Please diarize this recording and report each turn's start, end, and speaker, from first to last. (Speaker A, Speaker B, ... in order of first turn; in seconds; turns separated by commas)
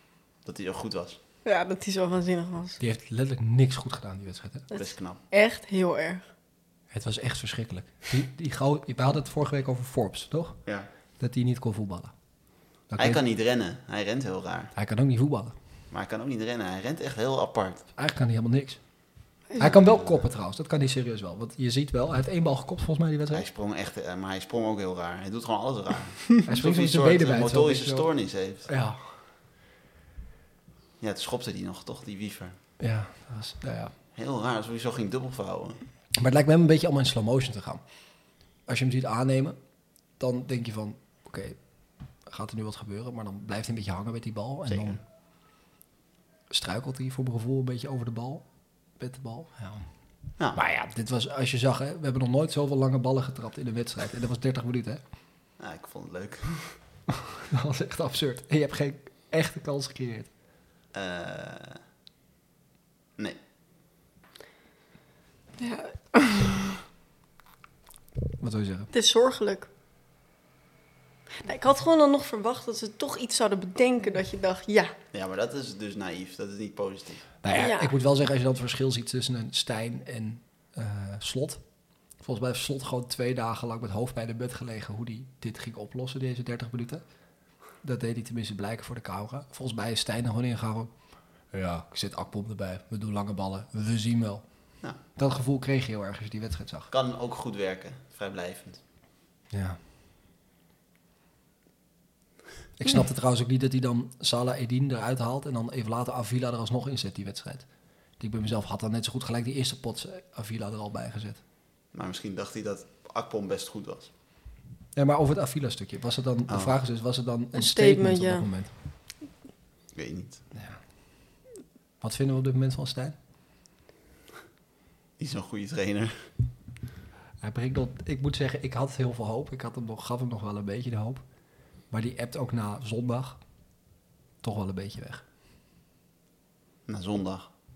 Speaker A: 0.4-1.2, Speaker B: 1.4-2.8, Speaker C: 2.8-4.7, Speaker B: 4.7-6.2, Speaker A: 4.7-5.2, Speaker C: 6.9-10.6, Speaker C: 11.2-12.1, Speaker C: 12.9-13.2, Speaker A: 13.0-14.7, Speaker C: 14.8-15.5, Speaker A: 15.9-17.9, Speaker C: 17.9-18.8, Speaker C: 19.6-23.4, Speaker A: 23.3-28.7, Speaker C: 26.4-28.1, Speaker C: 28.6-29.2, Speaker A: 31.0-32.6, Speaker C: 32.8-33.9, Speaker A: 34.1-35.8, Speaker C: 36.1-37.8, Speaker C: 38.7-39.5, Speaker C: 40.2-41.6, Speaker C: 42.2-45.0, Speaker A: 44.7-45.0, Speaker C: 46.5-48.4, Speaker C: 49.0-49.8, Speaker C: 50.5-55.0, Speaker A: 55.6-56.8, Speaker C: 57.3-60.3, Speaker A: 60.9-61.8, Speaker B: 65.6-66.8, Speaker C: 68.4-68.9, Speaker B: 68.9-69.7, Speaker B: 71.4-74.9, Speaker A: 75.1-77.3, Speaker C: 77.4-81.6, Speaker B: 77.5-77.9, Speaker C: 82.2-87.0, Speaker C: 87.8-90.9, Speaker C: 91.5-94.5, Speaker C: 95.1-96.9, Speaker A: 96.9-98.8, Speaker C: 99.5-99.8, Speaker C: 102.8-107.7, Speaker C: 108.2-111.4, Speaker A: 111.9-114.1, Speaker C: 114.9-118.7, Speaker A: 116.5-116.8, Speaker B: 117.5-118.5, Speaker A: 119.9-120.5, Speaker C: 122.0-123.2, Speaker A: 125.2-126.3, Speaker C: 127.4-131.2, Speaker C: 131.9-133.4, Speaker C: 134.4-135.2, Speaker A: 136.9-137.5